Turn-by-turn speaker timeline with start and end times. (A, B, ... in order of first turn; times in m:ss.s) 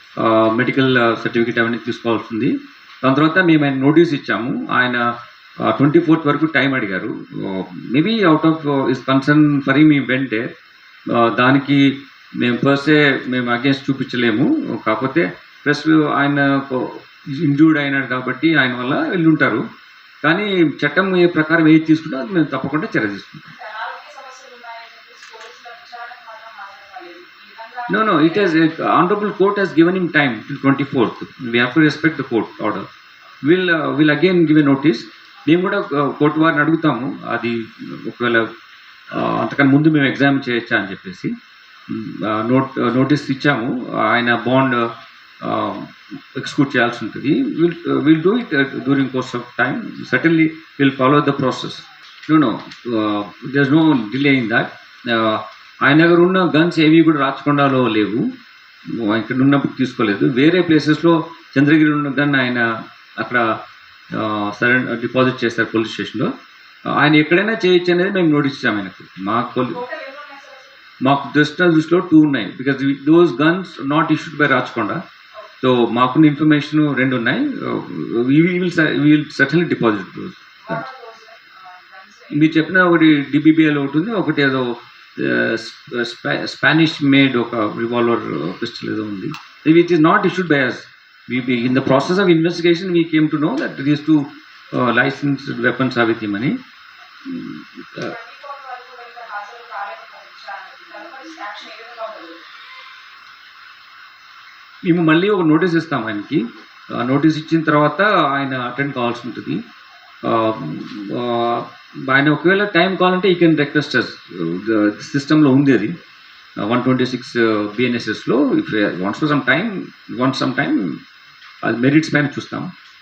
0:00.2-0:02.5 A
0:03.0-0:05.0 A
0:05.6-0:10.5 A
0:11.1-0:11.8 A
0:12.4-0:19.6 A
0:20.2-0:23.5 A
0:23.5-0:28.7 B
0:27.9-0:32.8 A
0:33.4-0:38.5 A
0:39.1-0:41.3 A
0:41.9-0:44.9 A
0:45.4-0:58.2 A
0:58.9-1:02.6 A
1:03.2-1:03.4 A
1:04.1-1:06.3 A
1:06.9-1:09.8 A
1:09.7-1:10.7 B
1:11.0-1:15.0 A
1:15.6-1:20.8 A
1:20.6-1:23.1 B
1:22.3-1:36.6 A
1:37.2-1:38.1 A
1:38.0-1:42.4 B
1:44.8-1:49.6 A
1:50.2-1:55.9 A
1:56.6-2:01.0 A
2:01.6-2:02.7 A